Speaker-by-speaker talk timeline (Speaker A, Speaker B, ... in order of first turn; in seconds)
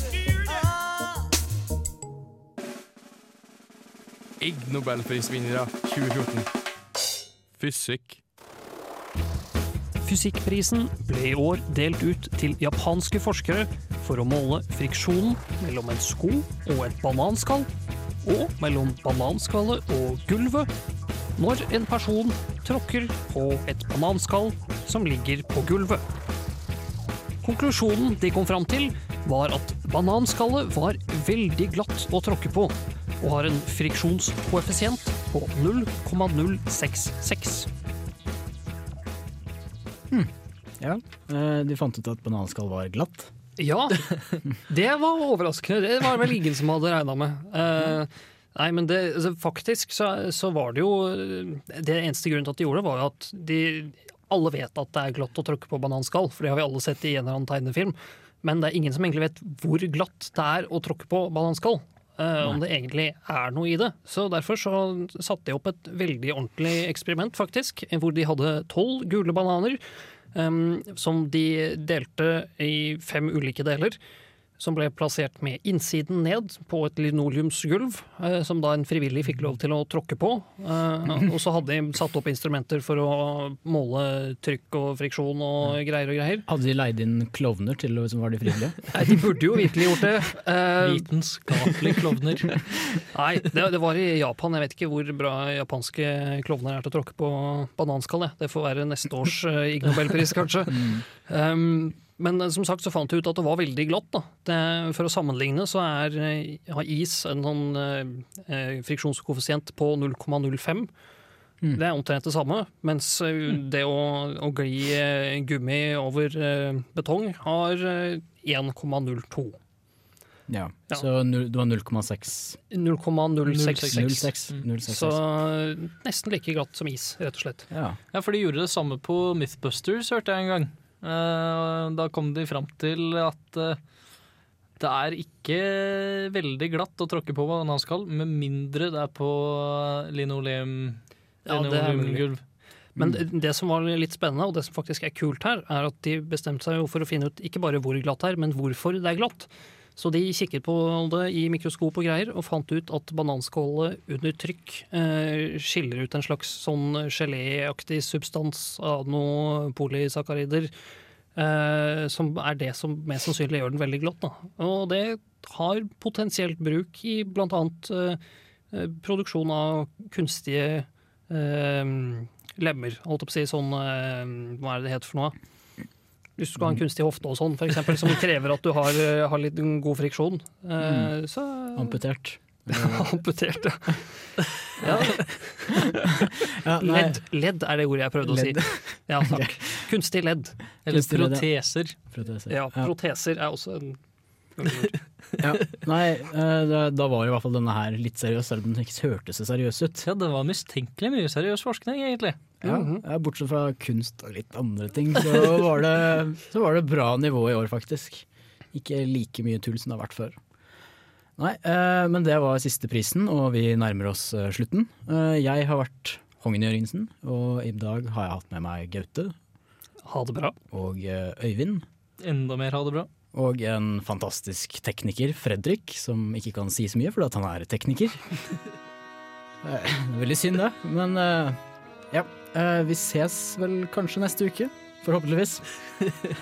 Speaker A: 4.4-6.5, 7.5-8.2
Speaker B: 10.0-17.7, 18.2-20.7, 21.4-26.0, 27.4-37.7, 43.6-69.8, 70.3-74.0, 74.6-86.4, 88.9-91.1, 93.1-110.9, 111.7-119.6, 122.7-127.7, 141.4-142.3, 142.9-160.7, 161.3-168.2, 168.7-175.3, 176.4-182.0, 182.7-184.1, 184.8-190.6, 192.5-194.0, 194.6-195.1, 202.6-203.0, 220.1-220.6
Speaker C: 40.1-43.3, 86.5-88.8, 100.7-101.0, 120.5-122.6, 123.8-125.2, 127.7-128.0, 180.8-181.1, 181.8-183.1, 186.5-187.2, 188.2-189.8, 190.9-191.5, 192.1-192.9, 195.4-200.1, 202.6-210.4, 211.4-219.3, 220.7-221.8, 223.3-228.2, 229.6-231.6, 232.1-235.6
Speaker D: 90.8-92.6, 123.5-124.6, 128.1-133.8, 134.8-142.4, 190.8-191.9, 200.0-202.4, 222.2-223.1